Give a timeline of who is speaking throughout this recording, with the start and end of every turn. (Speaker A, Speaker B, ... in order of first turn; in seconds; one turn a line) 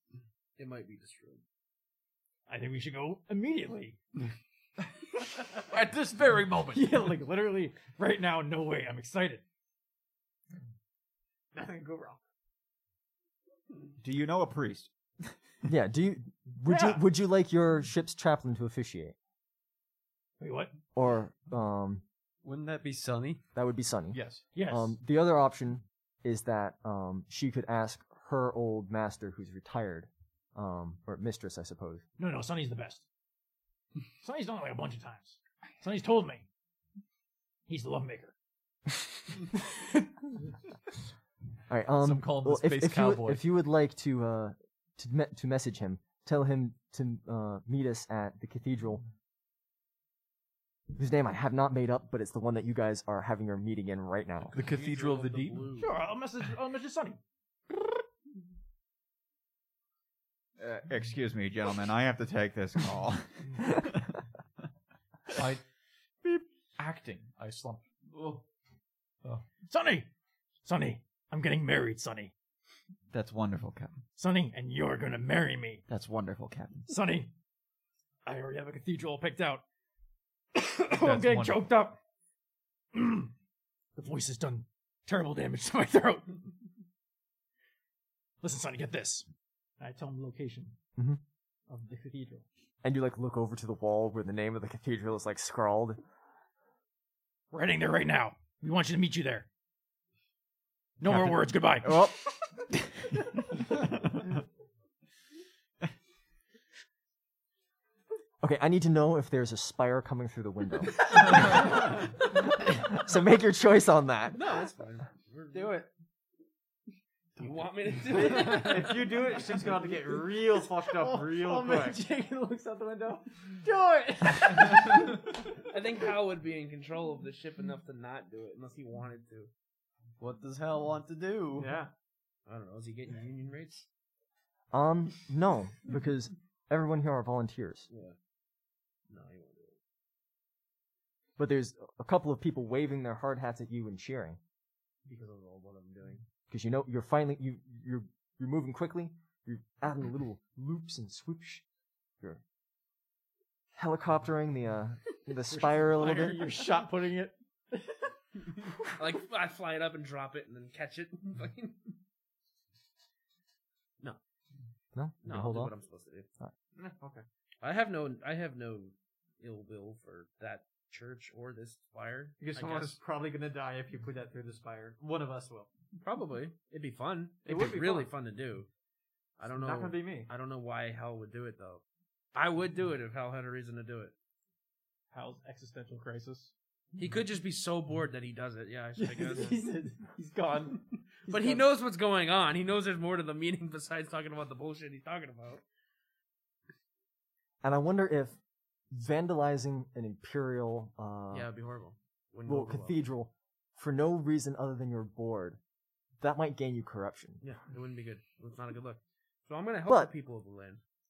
Speaker A: 0.6-1.4
Speaker B: 2.5-4.0
Speaker C: 5.6-7.1
Speaker B: 6.7-9.4
Speaker B: 11.5-12.2
Speaker D: 14.0-14.9
Speaker E: 15.7-19.1
Speaker B: 16.6-17.0
Speaker B: 20.4-20.8
Speaker E: 20.9-22.0
Speaker F: 22.4-23.4
Speaker E: 23.5-32.0
Speaker C: 24.1-24.4
Speaker B: 24.5-24.9
Speaker B: 32.2-33.0
Speaker B: 34.2-36.4
Speaker B: 37.7-38.3
Speaker E: 41.7-49.0
Speaker C: 42.0-43.5
Speaker E: 50.9-54.5
Speaker A: 54.5-56.0
Speaker C: 54.5-55.7
Speaker B: 55.8-57.2
Speaker D: 60.6-64.1
Speaker C: 65.3-65.6
Speaker C: 66.8-68.4
Speaker B: 69.7-70.1
Speaker B: 70.6-72.3
Speaker D: 73.1-74.0
Speaker B: 74.2-75.8
Speaker D: 75.9-76.9
Speaker B: 76.9-77.3
Speaker B: 78.2-79.6
Speaker B: 80.5-82.0
Speaker C: 80.9-81.7
Speaker B: 82.9-83.3
Speaker B: 84.0-86.4
Speaker B: 88.4-89.3
Speaker B: 89.8-90.8
Speaker B: 91.7-92.4
Speaker E: 92.8-96.0
Speaker B: 97.5-99.5
Speaker B: 101.0-102.4
Speaker E: 101.1-102.1
Speaker E: 108.4-111.6
Speaker E: 112.7-114.4
Speaker A: 114.3-115.8
Speaker A: 117.4-119.3
Speaker G: 118.1-122.0
Speaker B: 119.5-125.2
Speaker A: 124.6-129.5
Speaker F: 130.2-131.8
Speaker G: 131.6-131.9
Speaker A: 132.4-133.9
Speaker E: 134.7-137.9
Speaker A: 137.9-138.2
Speaker A: 139.1-139.8
Speaker E: 141.4-144.4
Speaker A: 145.0-146.2
Speaker E: 146.5-151.6
Speaker E: 153.8-156.4
Speaker B: 155.5-158.1
Speaker A: 158.9-161.9
Speaker E: 164.9-165.7
Speaker A: 165.2-166.3
Speaker G: 166.8-167.2
Speaker A: 167.6-173.0
Speaker G: 172.4-175.7
Speaker A: 176.0-178.7
Speaker G: 177.4-178.1
Speaker A: 179.4-181.8
Speaker G: 179.4-180.3
Speaker A: 182.3-184.1
Speaker B: 185.1-186.5
Speaker A: 186.9-189.6
Speaker B: 189.0-191.7
Speaker A: 191.2-195.6
Speaker E: 197.6-198.4
Speaker E: 198.9-201.5
Speaker A: 201.3-203.0
Speaker E: 202.4-205.6
Speaker E: 206.2-207.4
Speaker A: 207.4-210.8
Speaker E: 209.9-210.1